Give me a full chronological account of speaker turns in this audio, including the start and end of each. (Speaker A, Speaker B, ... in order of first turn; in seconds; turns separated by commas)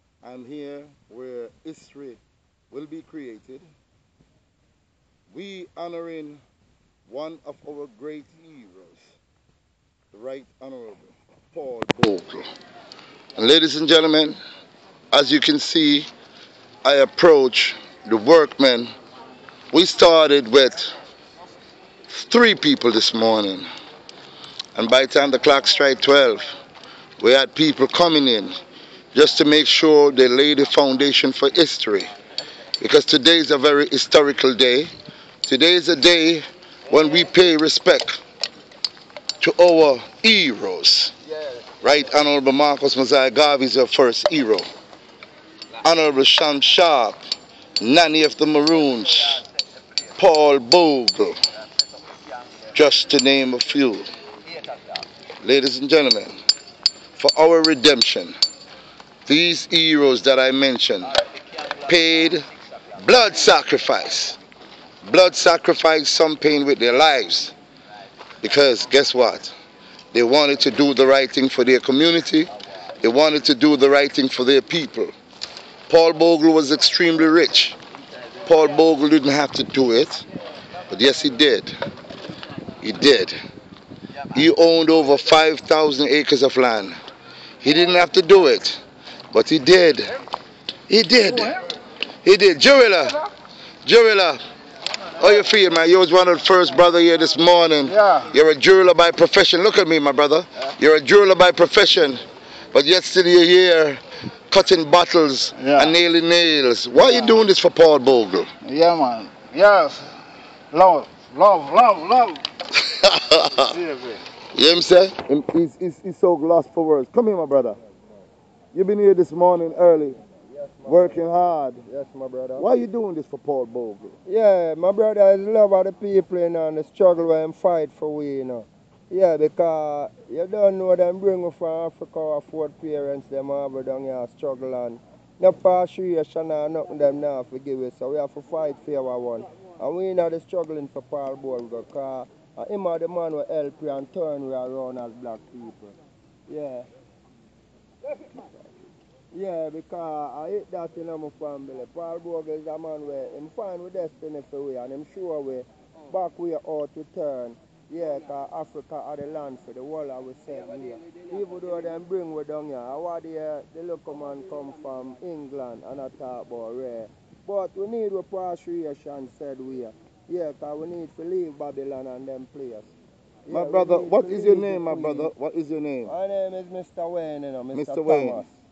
Speaker A: 0.2-2.2, Speaker A: 2.7-3.6, Speaker A: 5.3-6.4, Speaker A: 7.1-9.1, Speaker A: 10.1-12.5, Speaker A: 13.3-14.4, Speaker A: 15.1-16.1, Speaker A: 16.8-18.9, Speaker A: 19.7-20.9, Speaker A: 22.1-23.6, Speaker A: 24.8-26.5, Speaker A: 27.2-28.5, Speaker A: 29.1-32.1, Speaker A: 32.8-34.9, Speaker A: 35.4-38.2, Speaker A: 39.4-41.1, Speaker A: 41.8-44.7, Speaker A: 45.8-47.2, Speaker A: 47.8-49.4, Speaker A: 50.2-51.4, Speaker A: 52.7-54.1, Speaker A: 55.4-56.3, Speaker A: 57.2-58.3, Speaker A: 59.2-61.1, Speaker A: 61.8-62.4, Speaker A: 63.0-64.4, Speaker A: 65.0-67.5, Speaker A: 68.4-69.5, Speaker A: 70.1-75.1, Speaker A: 75.9-77.8, Speaker A: 78.5-80.2, Speaker A: 80.9-81.7, Speaker A: 82.8-83.3, Speaker A: 84.3-87.0, Speaker A: 87.6-88.8, Speaker A: 89.3-90.1, Speaker A: 90.9-91.6, Speaker A: 92.2-93.3, Speaker A: 93.8-94.4, Speaker A: 95.1-102.2, Speaker B: 97.9-98.2, Speaker A: 102.7-108.5, Speaker B: 105.6-105.9, Speaker B: 108.6-110.1, Speaker B: 110.7-112.4, Speaker A: 112.7-113.7, Speaker B: 113.6-114.2, Speaker A: 114.5-117.8, Speaker A: 118.7-120.2, Speaker C: 120.5-121.2, Speaker A: 120.8-121.8, Speaker C: 121.8-122.6, Speaker A: 122.6-124.2, Speaker C: 124.2-145.9, Speaker C: 146.5-146.9, Speaker C: 149.3-172.9, Speaker C: 173.5-175.3, Speaker A: 173.5-176.1, Speaker C: 176.1-178.5, Speaker A: 177.7-178.4